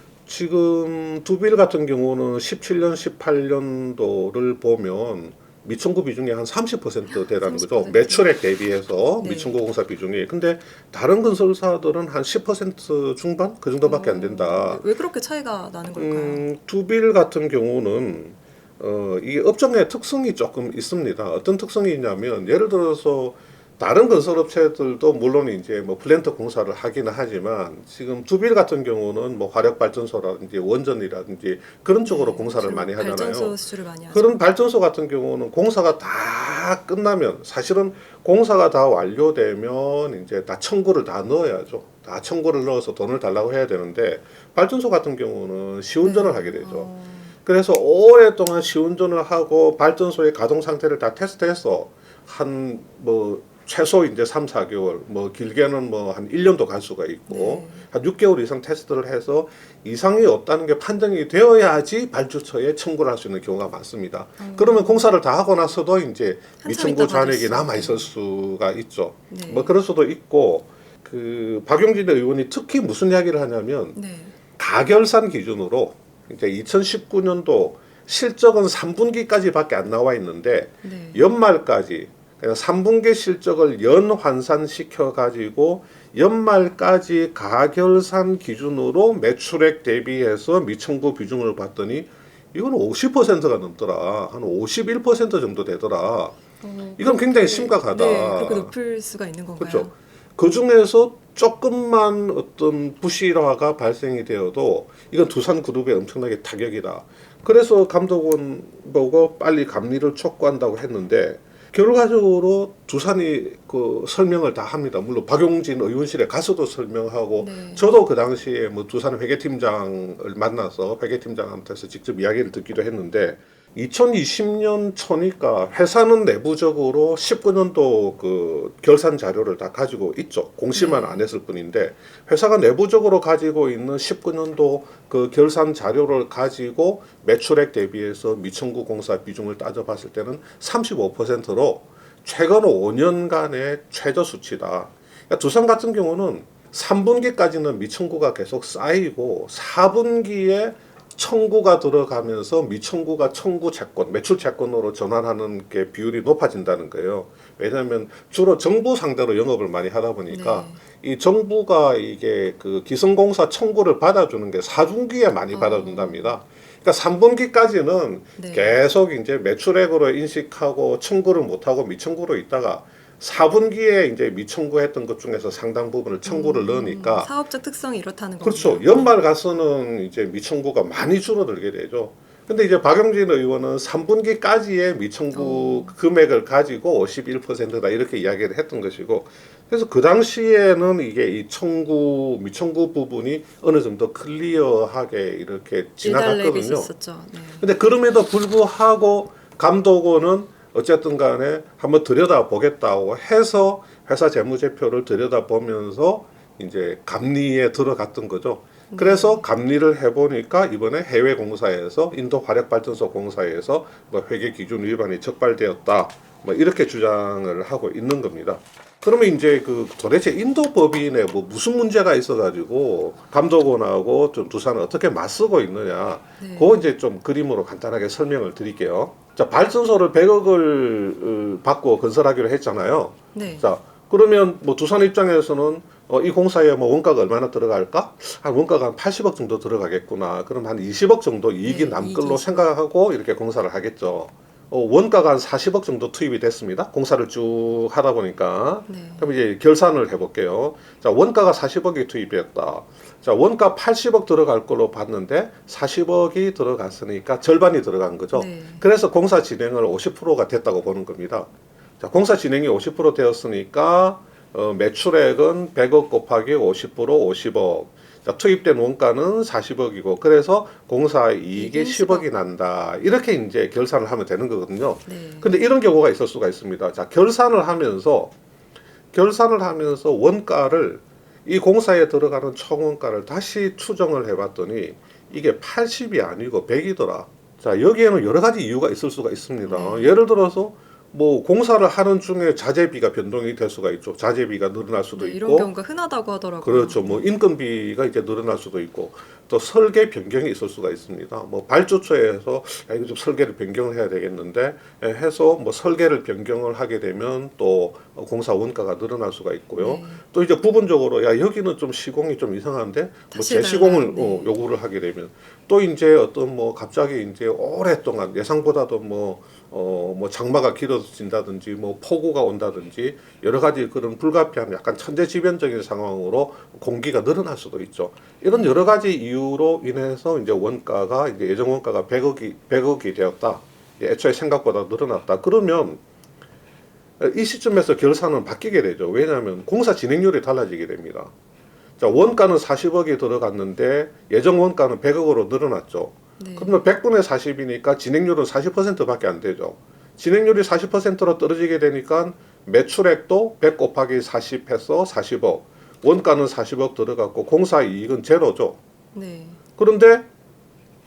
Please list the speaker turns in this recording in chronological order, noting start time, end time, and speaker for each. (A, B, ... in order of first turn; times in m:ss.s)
0:00.3-0:14.8 A
0:07.1-0:08.2 B
0:09.2-0:09.6 B
0:13.8-0:16.4 B
0:16.0-0:33.5 A
0:32.0-0:34.3 B
0:34.1-0:46.9 A
0:46.0-0:47.3 B
0:47.4-1:14.0 A
0:57.3-0:57.8 B
1:04.4-1:05.0 B
1:06.6-1:08.1 B
1:09.3-1:09.7 B
1:13.9-1:14.3 B
1:14.6-1:36.4 A
1:20.8-1:21.2 B
1:36.6-1:39.9 B
1:37.0-1:38.7 A
1:39.6-2:57.3 A
1:57.4-1:57.9 B
2:10.7-2:11.2 B
2:40.3-2:40.8 B
2:45.5-2:46.4 B
2:48.4-2:48.8 B
2:56.2-2:59.1 B
2:58.4-3:16.9 A
3:05.3-3:05.9 B
3:16.0-3:17.6 B
3:17.6-4:21.5 A
3:28.9-3:29.4 B
3:46.4-3:46.8 B
3:53.3-3:53.7 B
4:01.6-4:02.6 B
4:08.9-4:09.2 B
4:18.3-4:18.8 B
4:22.0-4:38.3 A
4:31.6-4:32.2 B
4:35.1-4:35.5 B
4:39.1-4:55.7 A
4:49.6-4:50.2 B
4:55.2-4:57.3 B
4:56.6-5:36.0 A
5:09.8-5:10.2 B
5:13.3-5:14.5 B
5:28.5-5:28.9 B
5:37.2-5:41.3 A
5:42.0-5:58.8 A
5:46.4-5:46.8 B
5:59.1-5:59.6 B
5:59.8-6:00.3 A